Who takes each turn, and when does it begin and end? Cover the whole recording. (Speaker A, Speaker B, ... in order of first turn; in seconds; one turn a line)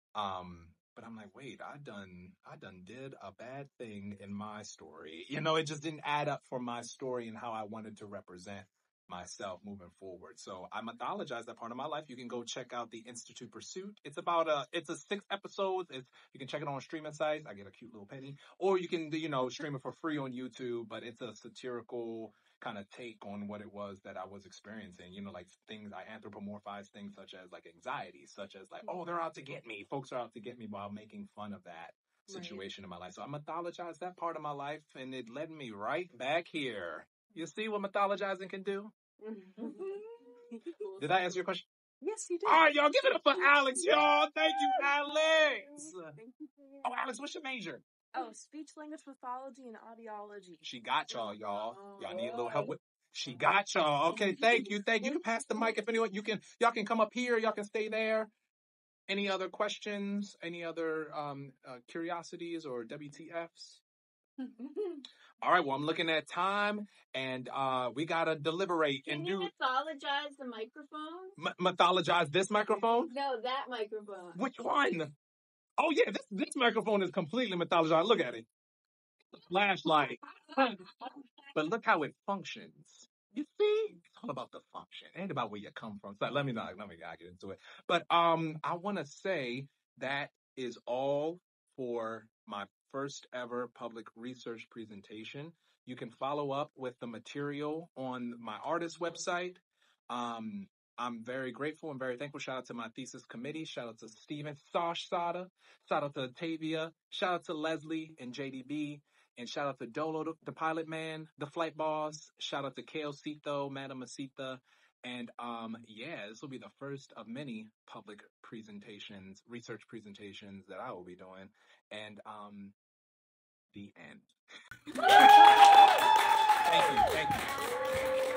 Speaker A: 0.2-38.9
Speaker B: 32.3-32.6
Speaker B: 39.2-41.3
Speaker C: 39.7-40.0
Speaker A: 41.0-41.6
Speaker B: 42.0-42.8
Speaker A: 42.4-46.2
Speaker B: 43.3-46.9
Speaker A: 46.8-47.8
Speaker B: 48.1-52.7
Speaker A: 50.6-58.3
Speaker A: 59.1-63.8
Speaker C: 64.7-65.0
Speaker A: 65.4-69.5
Speaker C: 69.1-71.3
Speaker A: 71.4-73.1
Speaker C: 73.1-74.4
Speaker A: 74.3-75.1
Speaker A: 75.8-78.5
Speaker A: 79.3-80.7
Speaker A: 81.5-122.8
Speaker A: 123.7-124.3
Speaker A: 125.0-126.0
Speaker A: 126.6-127.8